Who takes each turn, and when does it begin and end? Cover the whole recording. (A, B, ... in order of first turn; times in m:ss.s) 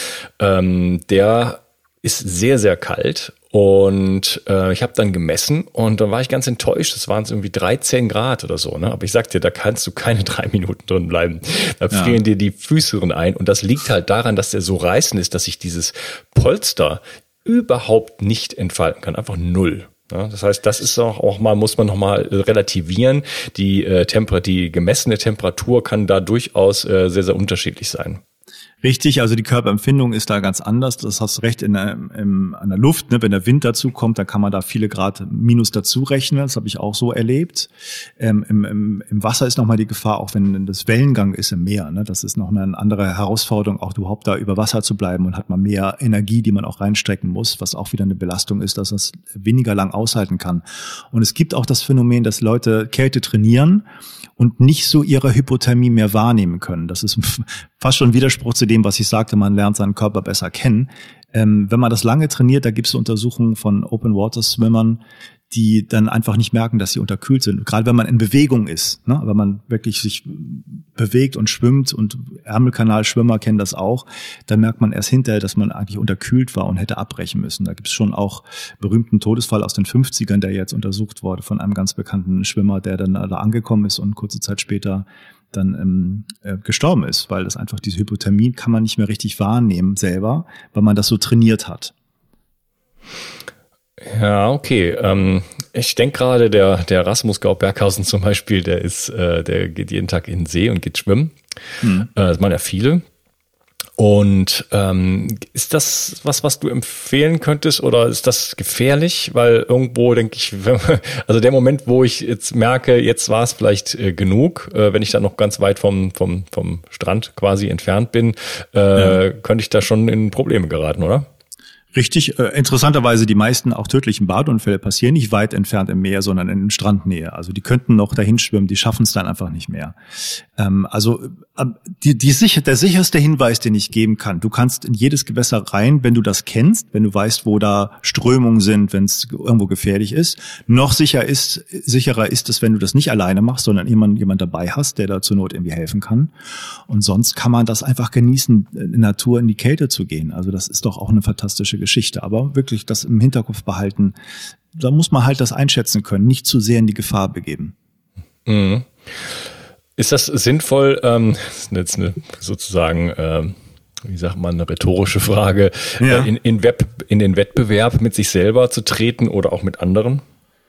0:00.4-0:28.2 A
0:11.9-0:12.2 B
0:28.8-0:53.8 B
0:54.4-1:05.0 B
1:05.5-1:31.9 B
1:34.0-1:41.4 A
1:41.8-1:42.1 B
1:42.0-1:43.0 A
1:44.0-2:01.3 A
2:01.9-2:10.0 B
2:10.6-2:26.3 B
2:26.9-2:34.2 B
2:34.7-2:37.7 B
2:38.5-2:39.4 A
2:40.0-2:50.2 A
2:46.0-2:46.3 B